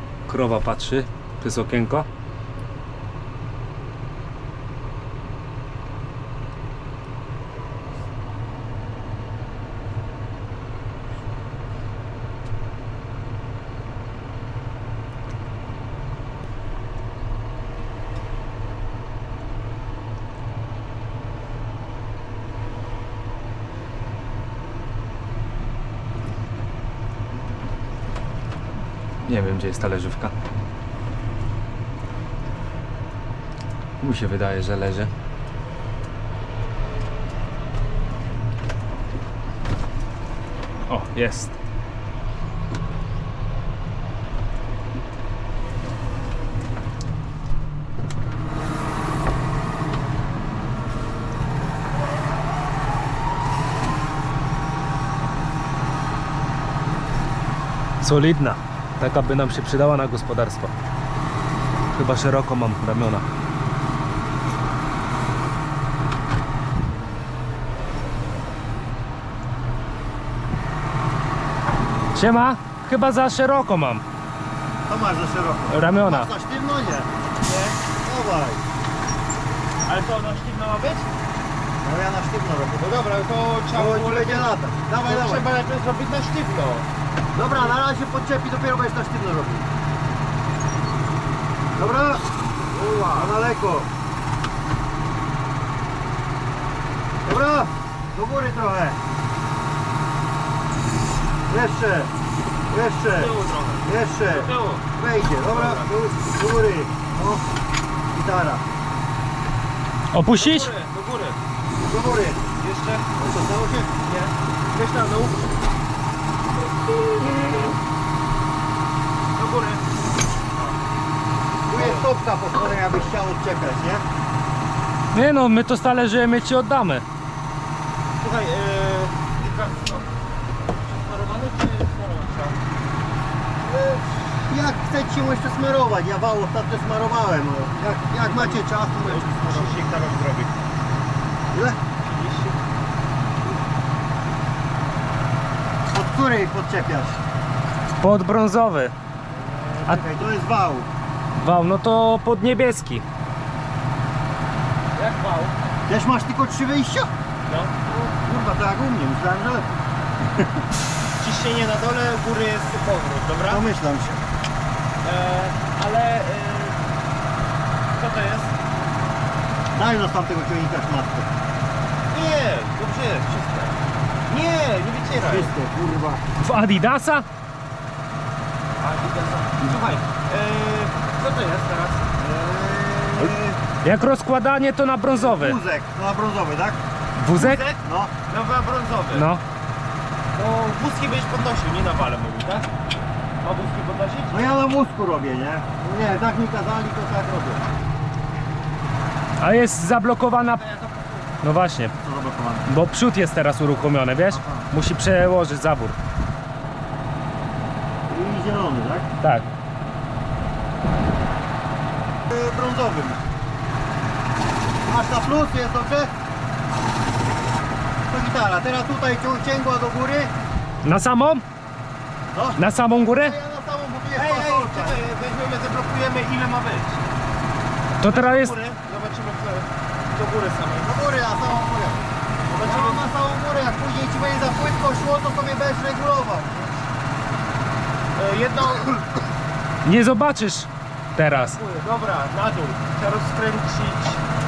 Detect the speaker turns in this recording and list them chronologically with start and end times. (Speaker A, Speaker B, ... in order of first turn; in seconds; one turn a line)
Speaker A: 0.3-2.1
Speaker A: 29.2-30.3
Speaker A: 34.0-35.1
Speaker A: 40.9-41.5
Speaker A: 58.0-60.7
Speaker A: 61.9-63.2
Speaker A: 72.1-74.0
Speaker B: 74.9-77.1
Speaker A: 75.7-76.3
Speaker C: 77.4-77.8
Speaker B: 78.0-78.6
Speaker C: 79.9-81.1
Speaker B: 81.8-82.9
Speaker C: 82.8-86.9
Speaker B: 83.7-85.5
Speaker B: 87.3-89.7
Speaker B: 91.8-92.2
Speaker C: 92.7-93.3
Speaker B: 93.1-93.9
Speaker B: 97.2-99.0
Speaker B: 101.5-102.1
Speaker B: 102.7-103.3
Speaker C: 103.1-104.8
Speaker B: 103.8-107.4
Speaker C: 105.5-105.9
Speaker B: 108.1-108.6
Speaker A: 110.1-110.7
Speaker C: 110.3-111.4
Speaker B: 111.8-112.4
Speaker C: 112.6-113.0
Speaker B: 113.2-113.9
Speaker C: 114.0-115.4
Speaker C: 117.0-117.6
Speaker C: 119.3-119.9
Speaker B: 121.7-124.0
Speaker C: 121.7-122.1
Speaker A: 125.1-127.0
Speaker C: 128.2-130.1
Speaker C: 130.8-132.6
Speaker B: 133.7-139.8
Speaker C: 138.2-140.5
Speaker B: 141.5-141.8
Speaker C: 142.0-142.6
Speaker B: 145.9-147.2
Speaker A: 148.0-148.9
Speaker B: 149.4-150.9
Speaker A: 151.4-153.0
Speaker C: 154.9-155.5
Speaker B: 155.9-157.1
Speaker C: 157.5-157.7
Speaker B: 157.8-159.8
Speaker C: 161.2-163.7
Speaker B: 163.4-164.2
Speaker C: 165.0-166.8
Speaker C: 167.9-168.5
Speaker B: 169.7-171.3
Speaker C: 172.1-175.5
Speaker B: 175.3-176.2
Speaker A: 176.4-177.2
Speaker C: 178.8-182.1
Speaker B: 182.2-183.6
Speaker A: 183.8-185.6
Speaker B: 185.1-186.8
Speaker A: 187.2-187.6
Speaker C: 187.3-189.3
Speaker B: 187.8-188.1
Speaker A: 189.1-189.4
Speaker C: 190.3-192.7
Speaker C: 193.4-194.5
Speaker B: 194.3-197.6
Speaker A: 199.4-200.6
Speaker C: 200.5-201.3
Speaker A: 201.4-201.9
Speaker B: 202.0-202.6
Speaker A: 202.7-205.9
Speaker B: 204.3-204.7
Speaker B: 208.1-209.1
Speaker A: 209.2-209.4
Speaker B: 212.3-213.2
Speaker B: 214.8-216.1
Speaker B: 218.1-220.3
Speaker A: 220.8-221.4
Speaker B: 222.3-225.0
Speaker A: 222.6-223.3
Speaker C: 224.1-227.0
Speaker A: 228.0-228.5
Speaker C: 228.0-230.9
Speaker B: 230.8-232.1
Speaker C: 232.5-233.0
Speaker B: 232.6-236.8
Speaker C: 238.2-239.0
Speaker A: 239.8-241.6
Speaker C: 241.6-244.2